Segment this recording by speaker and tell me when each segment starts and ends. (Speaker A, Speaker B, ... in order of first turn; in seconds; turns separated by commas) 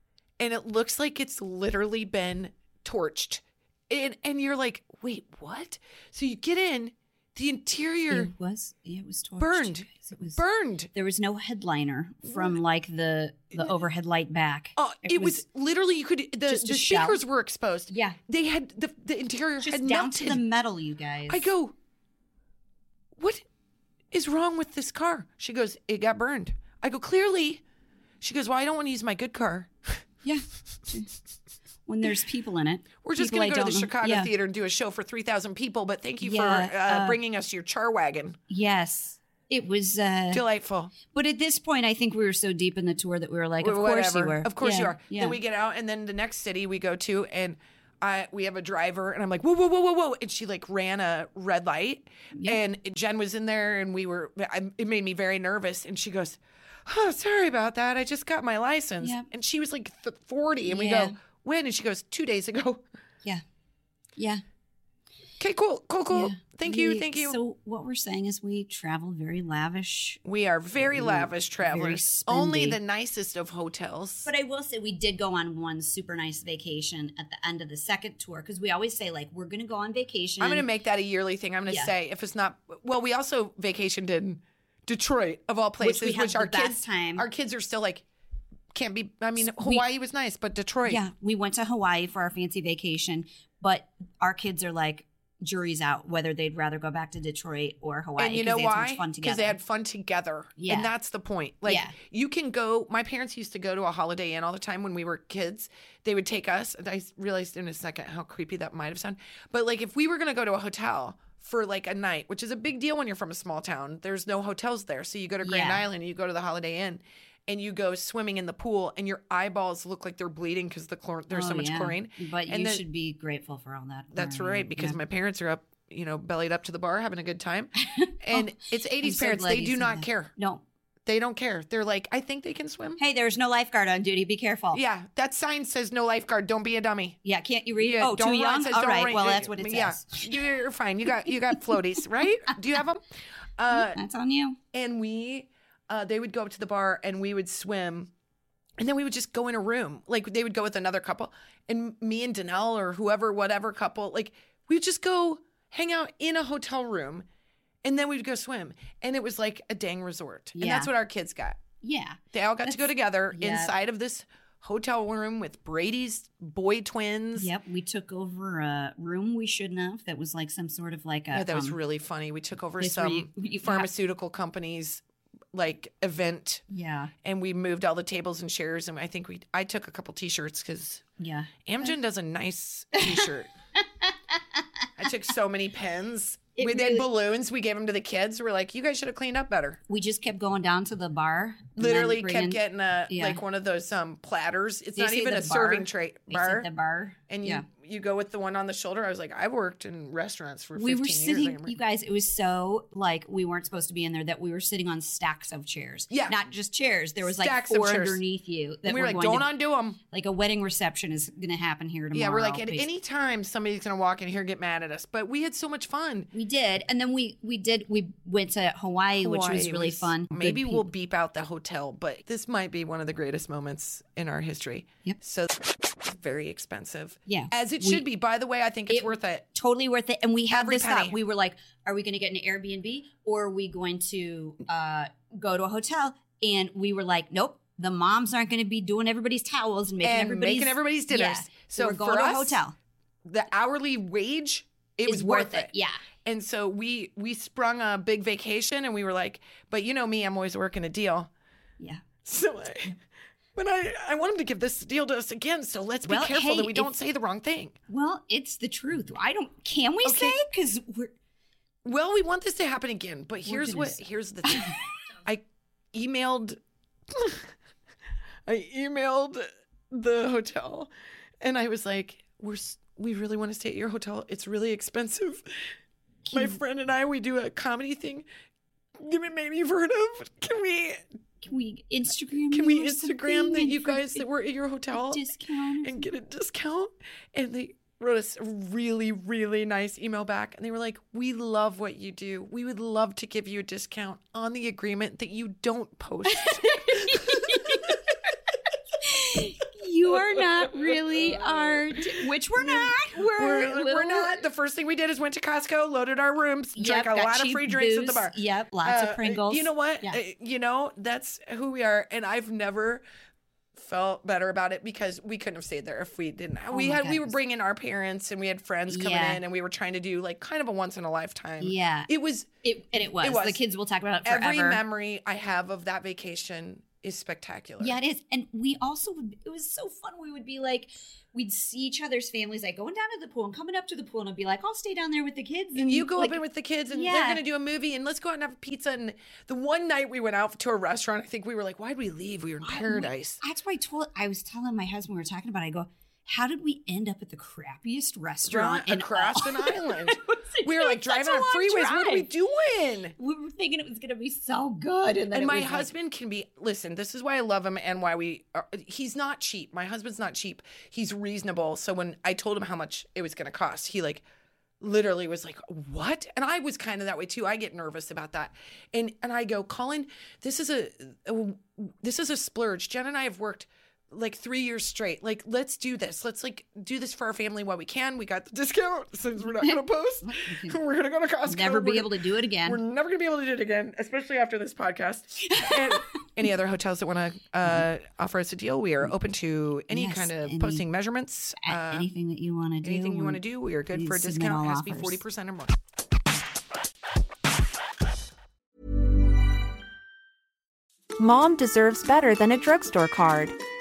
Speaker A: 0.4-8.3, Speaker B: 8.1-10.4, Speaker A: 9.4-10.9, Speaker B: 10.9-15.4, Speaker A: 14.8-20.4, Speaker B: 16.5-17.2, Speaker B: 17.9-18.2, Speaker B: 19.6-21.5, Speaker A: 21.3-21.7, Speaker A: 23.2-23.4, Speaker A: 24.1-27.6, Speaker A: 28.2-30.0, Speaker B: 30.2-31.1, Speaker B: 31.9-34.3, Speaker A: 33.0-38.4, Speaker B: 36.2-37.2, Speaker B: 38.5-40.4, Speaker A: 40.3-40.9, Speaker B: 41.1-45.4, Speaker A: 43.6-62.8, Speaker B: 59.0-59.3, Speaker B: 60.6-61.2, Speaker B: 64.2-64.4, Speaker A: 65.4-67.4, Speaker B: 66.1-70.2, Speaker A: 70.2-74.3, Speaker B: 70.8-72.8, Speaker B: 74.2-80.6, Speaker A: 80.4-88.0, Speaker B: 85.8-87.2, Speaker A: 88.7-91.0, Speaker B: 89.4-89.8, Speaker B: 90.8-99.5, Speaker A: 98.2-122.8, Speaker B: 100.6-100.9, Speaker B: 101.7-101.9, Speaker B: 115.4-115.8, Speaker B: 121.3-125.0, Speaker A: 124.1-130.3, Speaker B: 127.8-130.6, Speaker A: 131.1-133.0, Speaker B: 133.0-134.8, Speaker A: 134.7-137.2, Speaker B: 137.2-140.4, Speaker A: 137.8-143.0, Speaker A: 143.6-144.0, Speaker B: 143.7-144.6, Speaker A: 144.7-148.1, Speaker A: 148.8-157.2, Speaker A: 157.8-161.6, Speaker B: 160.6-160.9, Speaker B: 161.8-163.7, Speaker A: 162.3-167.5, Speaker B: 167.3-171.8, Speaker A: 171.3-175.0, Speaker B: 172.8-173.9, Speaker A: 175.5-176.6, Speaker B: 176.7-177.1, Speaker A: 177.2-181.0, Speaker B: 181.2-181.9, Speaker A: 181.7-183.5, Speaker B: 184.0-184.8, Speaker A: 185.0-189.8, Speaker B: 186.6-187.1, Speaker B: 189.9-193.4, Speaker A: 191.8-196.7, Speaker B: 194.9-197.6, Speaker A: 197.3-201.7, Speaker B: 200.8-209.5, Speaker A: 206.1-206.3, Speaker A: 207.3-208.2, Speaker A: 208.8-210.0, Speaker B: 210.1-212.9, Speaker A: 212.1-216.3, Speaker B: 216.3-220.8, Speaker A: 219.2-229.5, Speaker B: 227.3-228.0, Speaker B: 228.9-242.7, Speaker A: 230.5-231.2, Speaker A: 240.0-242.6, Speaker A: 243.3-245.7, Speaker B: 245.1-246.0, Speaker A: 246.2-251.3, Speaker A: 252.2-252.9, Speaker A: 253.6-257.7, Speaker B: 256.1-256.9, Speaker B: 257.9-261.1, Speaker A: 260.0-260.4, Speaker A: 261.8-265.4, Speaker B: 263.4-264.8, Speaker A: 265.9-266.6, Speaker A: 267.1-267.4, Speaker A: 268.4-270.9, Speaker A: 271.4-275.4, Speaker B: 276.2-276.6, Speaker A: 276.3-278.2, Speaker A: 279.0-281.0, Speaker B: 281.4-284.2, Speaker A: 282.5-285.2, Speaker B: 284.9-286.0, Speaker A: 285.8-297.9, Speaker B: 296.3-298.0, Speaker B: 299.0-304.4, Speaker A: 300.4-301.9, Speaker A: 302.6-313.0, Speaker B: 306.8-310.2, Speaker A: 313.7-322.5, Speaker B: 316.7-317.4, Speaker B: 318.9-319.4, Speaker B: 321.6-322.1, Speaker B: 322.6-324.8, Speaker A: 323.0-323.6, Speaker A: 324.2-328.0, Speaker B: 327.8-337.4, Speaker A: 335.8-343.4, Speaker B: 342.6-352.3, Speaker A: 348.5-353.1, Speaker B: 353.2-355.9, Speaker A: 355.3-364.2, Speaker A: 364.8-392.1, Speaker B: 379.5-380.8, Speaker B: 381.4-382.8, Speaker B: 385.4-386.1, Speaker B: 389.9-390.8, Speaker B: 391.6-393.4, Speaker A: 392.8-395.7, Speaker B: 393.9-395.2, Speaker C: 401.2-403.6